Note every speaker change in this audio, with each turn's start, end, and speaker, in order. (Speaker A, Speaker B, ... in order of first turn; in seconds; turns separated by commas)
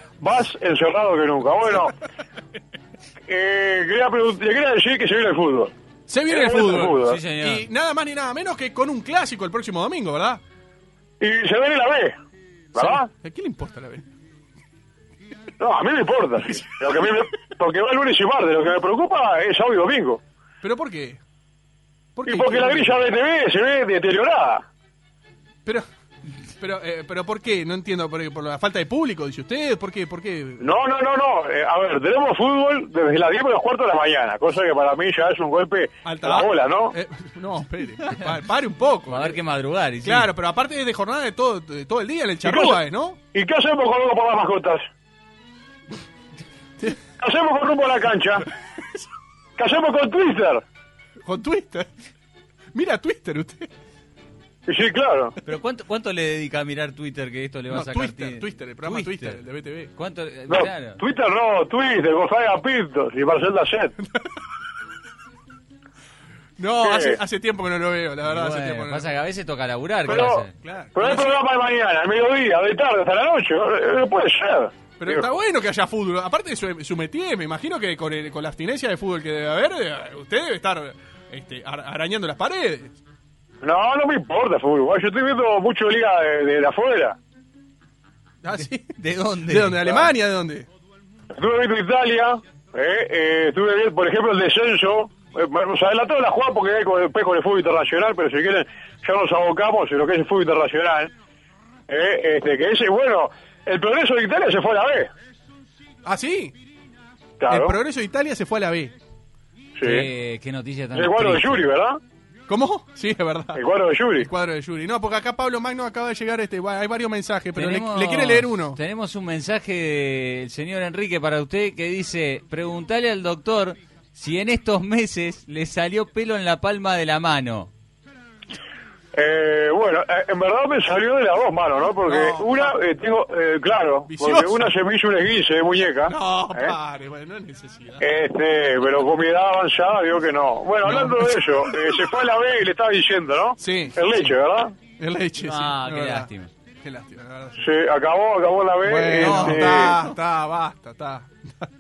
Speaker A: 0.2-2.0, Speaker A: 3.3-5.7, Speaker B: 6.1-10.4, Speaker A: 6.3-7.2, Speaker C: 7.0-7.7, Speaker A: 11.2-12.2, Speaker B: 12.7-14.1, Speaker A: 12.8-13.1, Speaker A: 15.6-20.2, Speaker B: 20.6-21.2, Speaker B: 22.2-23.1, Speaker A: 22.3-24.6, Speaker B: 26.6-30.7, Speaker A: 30.6-37.0, Speaker B: 36.0-39.4, Speaker C: 39.1-40.3, Speaker B: 40.0-43.2, Speaker A: 42.4-42.8, Speaker A: 43.3-44.9, Speaker A: 47.2-48.5, Speaker A: 49.6-50.6, Speaker B: 51.2-51.9, Speaker B: 52.7-53.7, Speaker A: 54.7-55.4, Speaker C: 55.4-59.4, Speaker B: 57.7-59.9, Speaker C: 60.0-61.0, Speaker A: 60.5-64.0, Speaker B: 66.6-69.1, Speaker A: 66.8-67.2, Speaker C: 68.3-70.5, Speaker A: 70.1-75.3, Speaker B: 70.6-71.3, Speaker B: 75.0-83.0, Speaker A: 83.6-87.2, Speaker B: 88.4-90.7, Speaker C: 89.0-90.1, Speaker A: 91.3-101.1, Speaker A: 101.9-105.1, Speaker B: 106.0-106.5, Speaker A: 107.4-107.8, Speaker B: 107.5-108.9, Speaker A: 109.8-110.1, Speaker C: 109.8-111.7, Speaker A: 110.9-112.0, Speaker B: 112.5-113.6, Speaker A: 113.5-114.3, Speaker B: 114.2-118.8, Speaker C: 117.5-127.7, Speaker A: 129.1-136.8, Speaker B: 132.1-132.7, Speaker B: 134.1-134.7, Speaker B: 136.1-138.1, Speaker A: 138.0-144.8, Speaker B: 140.8-142.2, Speaker B: 143.6-144.1, Speaker B: 144.9-146.3, Speaker C: 145.4-146.5, Speaker B: 146.8-147.6, Speaker A: 147.6-150.0, Speaker B: 148.8-151.7, Speaker C: 149.2-150.1